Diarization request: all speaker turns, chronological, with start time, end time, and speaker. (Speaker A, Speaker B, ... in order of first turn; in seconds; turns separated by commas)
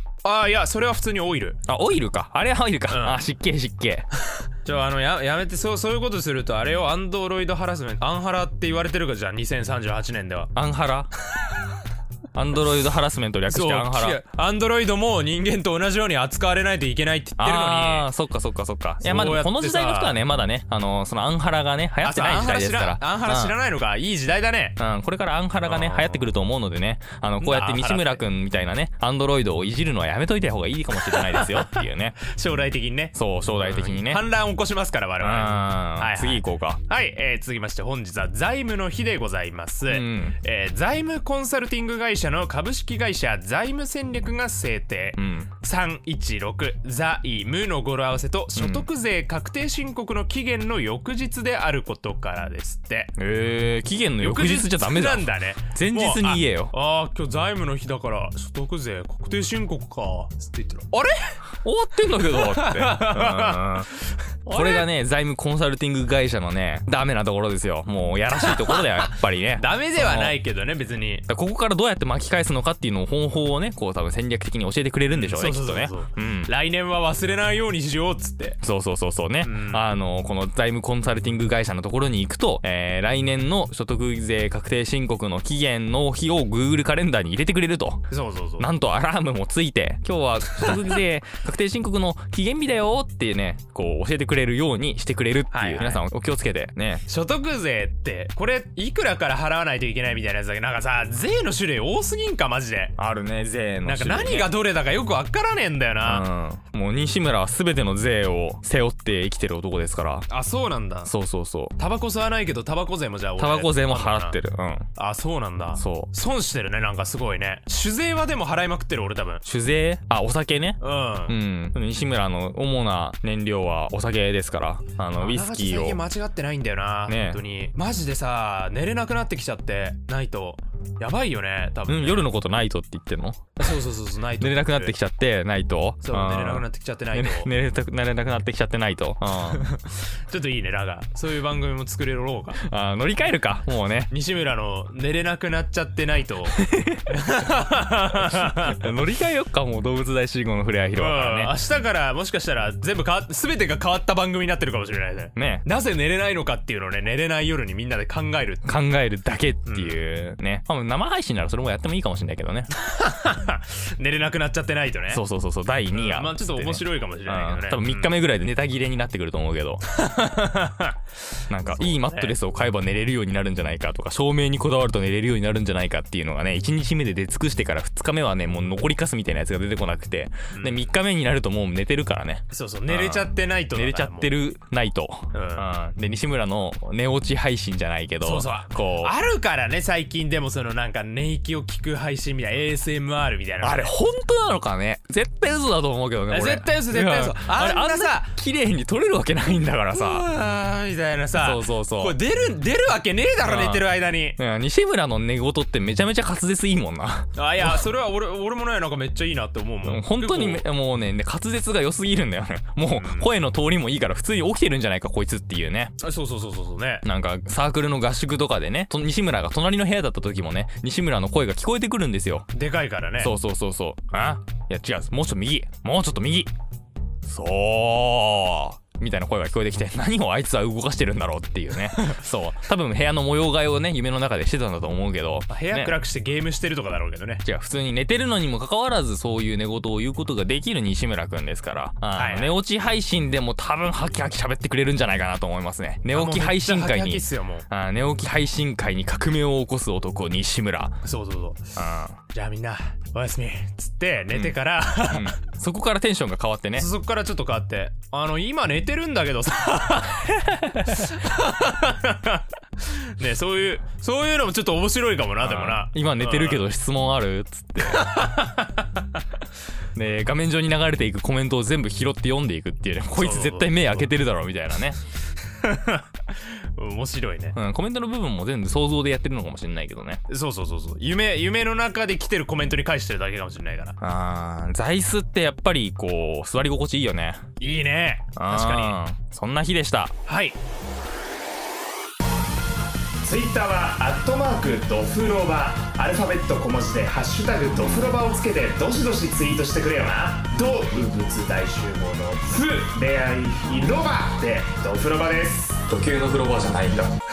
Speaker A: 0.2-1.6, Speaker B: 1.7-4.1, Speaker A: 2.9-3.2, Speaker A: 4.5-10.5, Speaker B: 10.5-11.1, Speaker A: 11.3-11.7, Speaker B: 12.3-14.2, Speaker A: 13.5-18.1, Speaker B: 17.4-23.6, Speaker A: 19.0-20.2, Speaker A: 22.0-24.8, Speaker B: 24.8-32.2, Speaker A: 25.6-26.3, Speaker A: 27.4-28.2, Speaker A: 30.9-53.1, Speaker B: 33.1-34.2, Speaker B: 35.2-36.8, Speaker B: 39.9-40.4, Speaker B: 45.1-45.5, Speaker B: 48.5-48.9, Speaker B: 53.2-56.7, Speaker A: 54.2-61.4, Speaker B: 61.6-63.9, Speaker A: 62.3-64.9, Speaker B: 64.5-70.4, Speaker A: 68.3-71.2, Speaker B: 71.3-76.5, Speaker A: 75.1-78.6, Speaker B: 78.6-97.0, Speaker A: 79.4-79.9, Speaker A: 88.1-88.7, Speaker A: 90.5-91.0, Speaker A: 95.5-96.0, Speaker A: 97.0-102.9, Speaker B: 103.0-104.5, Speaker A: 103.8-106.3, Speaker B: 106.0-110.3, Speaker A: 110.3-111.1, Speaker B: 111.0-111.8, Speaker A: 111.8-114.4, Speaker B: 113.4-114.9, Speaker A: 114.9-119.4, Speaker B: 115.8-116.1, Speaker B: 119.4-126.0, Speaker A: 120.8-121.3, Speaker A: 125.2-132.3, Speaker B: 127.1-127.4, Speaker B: 131.9-133.8, Speaker A: 133.6-134.9, Speaker B: 134.4-139.7, Speaker A: 136.0-137.5, Speaker A: 139.5-142.6, Speaker B: 142.6-144.1, Speaker A: 144.1-148.8, Speaker B: 146.6-147.0, Speaker B: 148.2-151.6, Speaker A: 150.9-158.7, Speaker B: 155.3-155.7, Speaker B: 158.6-162.7, Speaker A: 159.7-160.0, Speaker A: 162.8-165.2, Speaker B: 165.1-169.8, Speaker A: 165.9-168.1, Speaker A: 169.9-171.0, Speaker B: 171.5-189.1, Speaker A: 171.8-172.3, Speaker A: 180.5-180.9, Speaker A: 182.5-184.3, Speaker A: 185.3-185.7, Speaker A: 188.2-193.9, Speaker B: 193.6-200.2, Speaker A: 196.3-198.3, Speaker A: 199.9-204.4, Speaker B: 201.3-202.2, Speaker B: 203.4-207.8, Speaker A: 207.3-210.6, Speaker B: 209.8-215.9, Speaker A: 212.9-213.3, Speaker A: 216.0-217.0, Speaker B: 217.0-222.5, Speaker A: 222.5-223.3, Speaker B: 223.2-226.5, Speaker B: 227.3-236.0, Speaker A: 235.5-237.4, Speaker B: 237.4-251.0, Speaker A: 242.1-242.5, Speaker A: 246.1-247.7, Speaker A: 251.0-251.7, Speaker B: 251.8-252.2, Speaker A: 252.3-255.3, Speaker B: 254.3-256.9, Speaker A: 256.7-260.3, Speaker B: 260.2-261.1, Speaker A: 260.8-266.6, Speaker B: 265.4-268.1, Speaker A: 267.8-269.2, Speaker B: 269.9-275.0, Speaker A: 273.1-274.1, Speaker A: 275.4-277.6, Speaker B: 277.5-280.2, Speaker A: 280.3-284.0, Speaker B: 284.0-287.4, Speaker A: 287.6-289.0, Speaker B: 288.4-290.1, Speaker A: 290.2-290.6, Speaker A: 293.2-305.8, Speaker B: 305.9-307.1